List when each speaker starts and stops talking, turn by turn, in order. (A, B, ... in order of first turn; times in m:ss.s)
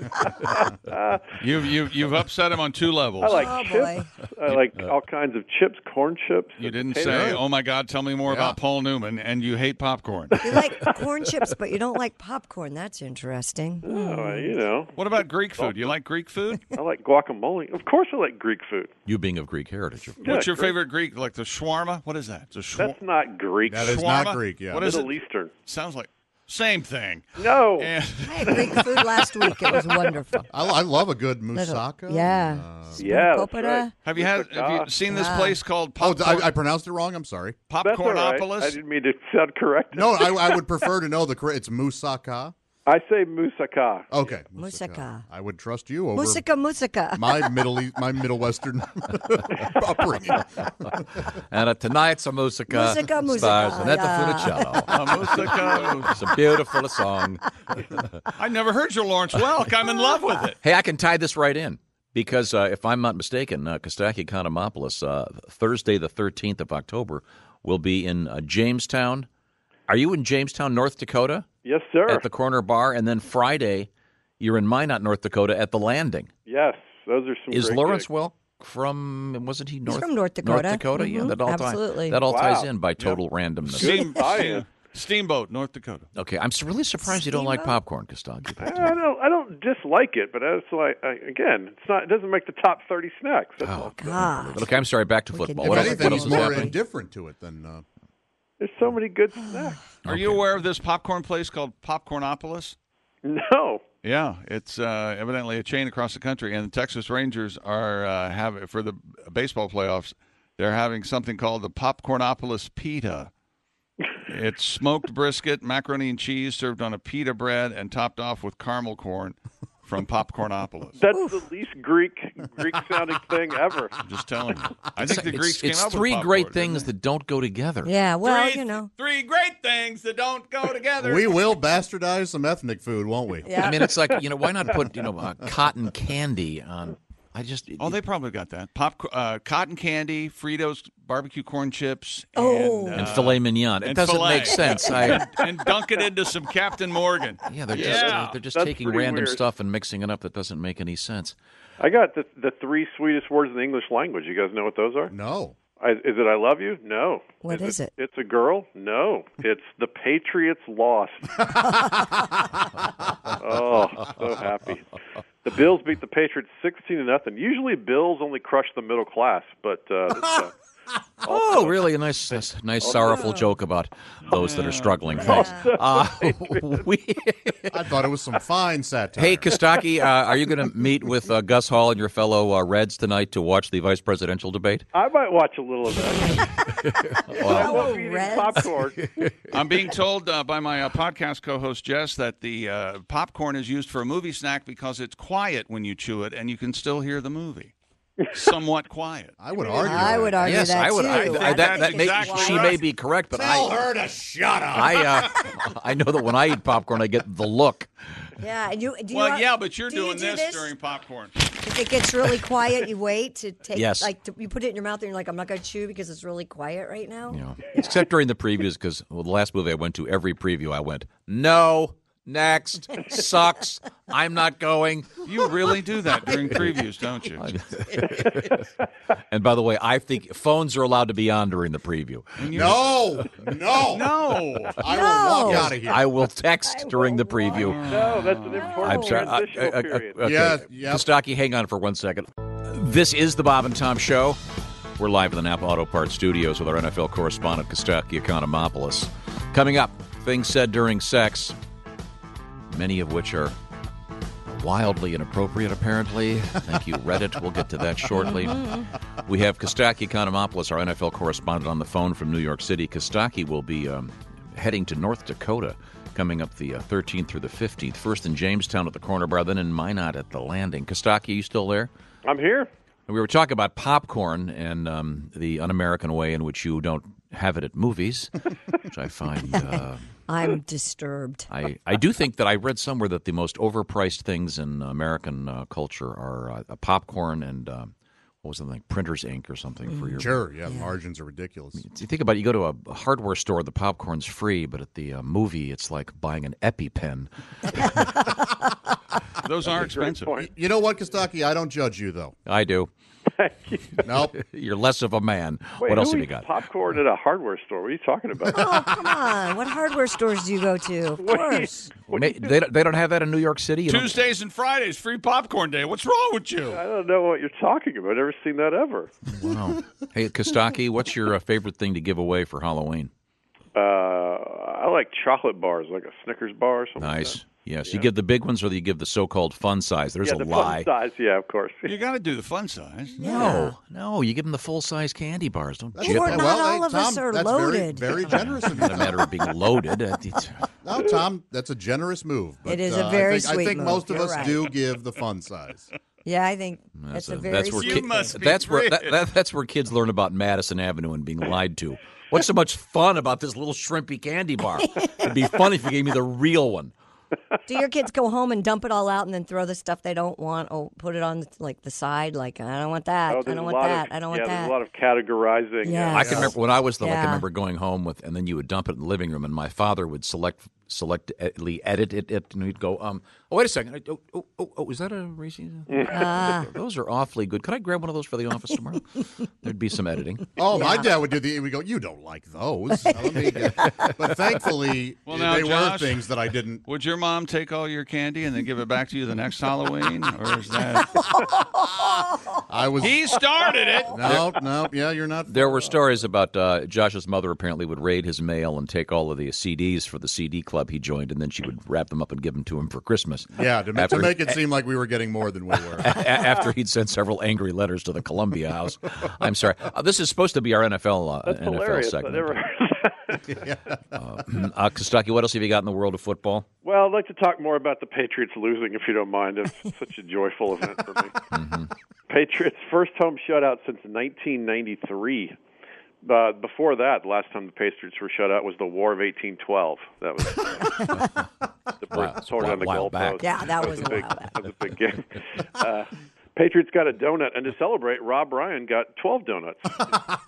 0:00.4-0:01.3 A
0:01.4-0:03.6 B
0:03.2-0:07.4 A
0:03.2-0:04.2 C
0:06.6-0:11.0 B
0:07.1-0:07.4 D
0:08.3-0:08.6 D
0:10.4-0:10.9 A
0:10.4-0:14.6 C
0:13.8-0:15.0 A
0:15.0-0:16.8 B
0:15.6-0:15.9 A
0:16.7-0:18.9 A
0:19.1-0:20.2 E
0:20.2-0:20.8 A
0:20.2-0:23.0 B
0:22.8-0:23.9 A
0:23.7-0:25.0 D
0:23.8-0:30.0 B
0:24.8-0:25.5 A
0:27.4-0:27.9 A
0:28.2-0:30.5 C
0:30.5-0:33.2 D
0:31.5-0:33.9 C
0:33.0-0:34.9 A
0:34.0-0:36.5 B
0:35.0-0:35.6 C
0:36.0-0:37.6 D
0:37.7-0:38.8 B
0:37.8-0:40.7 A
0:39.9-0:42.5 D
0:42.9-0:44.4 A
0:44.1-0:46.4 D
0:44.6-0:45.2 C
0:46.2-0:47.5 C
0:47.1-0:51.3 D
0:51.2-0:55.4 E
0:52.7-0:54.9 C
0:54.8-0:56.3 B
0:56.0-0:57.4 E
0:58.3-1:00.6 B
1:00.6-1:09.3 E
1:09.9-1:11.5 E
1:11.6-1:12.3 A
1:12.1-1:13.9 E
1:14.4-1:16.3 E
1:16.5-1:18.1 A
1:17.5-1:24.0 E
1:19.9-1:22.2 C
1:22.2-1:22.7 A
1:23.0-1:26.1 B
1:23.8-1:24.7 A
1:26.2-1:29.0 E
1:27.0-1:27.8 C
1:28.6-1:34.2 A
1:33.6-1:36.7 E
1:34.0-1:34.7 C
1:35.3-1:36.7 C
1:35.6-1:37.8 D
1:38.6-1:39.8 A
1:39.5-1:39.8 C
1:40.0-1:40.4 E
1:40.0-1:42.8 B
1:43.2-1:43.8 A
1:44.0-1:53.3 B
1:54.3-2:01.0 B
2:01.0-2:04.0 A
2:01.1-2:01.4 C
2:04.0-2:06.9 B
2:05.0-2:07.9 E
2:07.8-2:08.9 C
2:08.2-2:11.4 B
2:11.0-2:13.8 D
2:13.5-2:13.9 C
2:13.6-2:18.0 E
2:17.8-2:28.4 B
2:22.4-2:23.1 C
2:23.0-2:25.3 E
2:27.5-2:31.4 E
2:27.8-2:29.4 A
2:31.8-2:35.1 A
2:35.1-2:35.6 D
2:35.8-2:41.5 A
2:37.4-2:37.9 C
2:41.5-2:42.2 D
2:41.8-2:42.2 C
2:43.4-2:44.9 A
2:45.4-2:50.5 A
2:51.2-2:51.9 A
2:51.2-2:57.8 E
2:52.8-2:53.1 A
2:52.8-2:53.5 C
2:54.2-2:55.4 B
2:55.2-2:55.8 C
2:55.2-2:56.7 A
2:57.7-2:59.6 D
2:59.2-3:04.9 E
3:04.9-3:06.7 A
3:06.8-3:07.9 E
3:07.3-3:08.7 C
3:07.4-3:09.1 A
3:09.0-3:09.4 E
3:09.5-3:17.7 B
3:18.3-3:19.4 B
3:19.4-3:20.6 D
3:19.6-3:20.4 A
3:19.7-3:22.8 C
3:20.4-3:23.8 E
3:21.0-3:22.8 B
3:23.3-3:25.5 D
3:24.7-3:27.9 E
3:28.4-3:30.7 C
3:29.1-3:31.5 B
3:31.6-3:38.1 C
3:33.7-3:34.1 E
3:37.3-3:45.2 E
3:45.2-3:47.5 B
3:47.4-3:48.7 E
3:48.0-3:48.8 A
3:49.3-3:52.4 E
3:52.4-3:53.2 B
3:52.5-3:56.1 D
3:53.8-3:54.8 B
3:54.8-3:55.8 C
3:55.5-3:58.0 E
3:56.7-3:59.3 C
3:57.5-3:58.7 B
3:57.8-4:00.3 A
3:58.8-4:04.4 E
4:00.2-4:01.1 D
4:05.0-4:11.6 E
4:12.7-4:13.6 E
4:14.5-4:31.9 E
4:18.2-4:18.9 C
4:32.2-4:32.7 A
4:33.1-4:40.0 E
4:39.5-4:41.5 C
4:41.5-4:50.4 E
4:49.9-4:50.9 C
4:50.2-4:51.8 D
4:51.8-4:57.9 E
4:57.8-4:58.5 C
4:59.4-5:00.4 B
4:59.7-5:00.5 A
5:00.4-5:02.4 D
5:02.5-5:02.9 E
5:03.4-5:04.0 A
5:04.0-5:04.4 D
5:04.2-5:06.5 E
5:05.8-5:09.0 A
5:08.5-5:11.8 C
5:11.2-5:12.5 A
5:12.1-5:14.2 E
5:13.9-5:16.8 B
5:16.7-5:19.1 A
5:19.3-5:23.1 E
5:23.8-5:28.1 A
5:27.0-5:30.9 E
5:30.2-5:31.9 A
5:31.9-5:33.3 B
5:33.2-5:33.8 C
5:33.2-5:36.5 E
5:36.0-5:39.3 D
5:36.0-5:38.3 C
5:38.7-5:40.7 E
5:40.8-5:45.9 D
5:42.7-5:44.8 C
5:46.2-5:48.4 C
5:47.0-5:56.9 E
5:47.7-5:49.2 B
5:55.1-5:55.3 C
5:57.7-6:04.8 C
6:03.3-6:06.4 A
6:05.8-6:07.5 C
6:06.1-6:20.5 E
6:06.2-6:06.6 D
6:15.9-6:16.3 A
6:16.1-6:16.7 C
6:20.6-6:26.8 D
6:25.3-6:26.3 B
6:26.8-6:31.4 B
6:31.2-6:32.0 C
6:32.5-6:33.2 D
6:33.0-6:34.4 B
6:34.1-6:35.9 D
6:34.2-6:34.5 E
6:35.5-6:44.6 E
6:43.6-6:46.2 D
6:46.0-6:52.6 E
6:51.4-6:53.6 A
6:53.5-6:54.2 D
6:54.1-6:56.7 E
6:56.8-7:01.4 A
7:01.5-7:01.9 E
7:02.3-7:05.6 A
7:06.2-7:11.2 A
7:10.8-7:11.4 C
7:12.0-7:20.2 A
7:12.1-7:13.5 E
7:13.4-7:14.6 C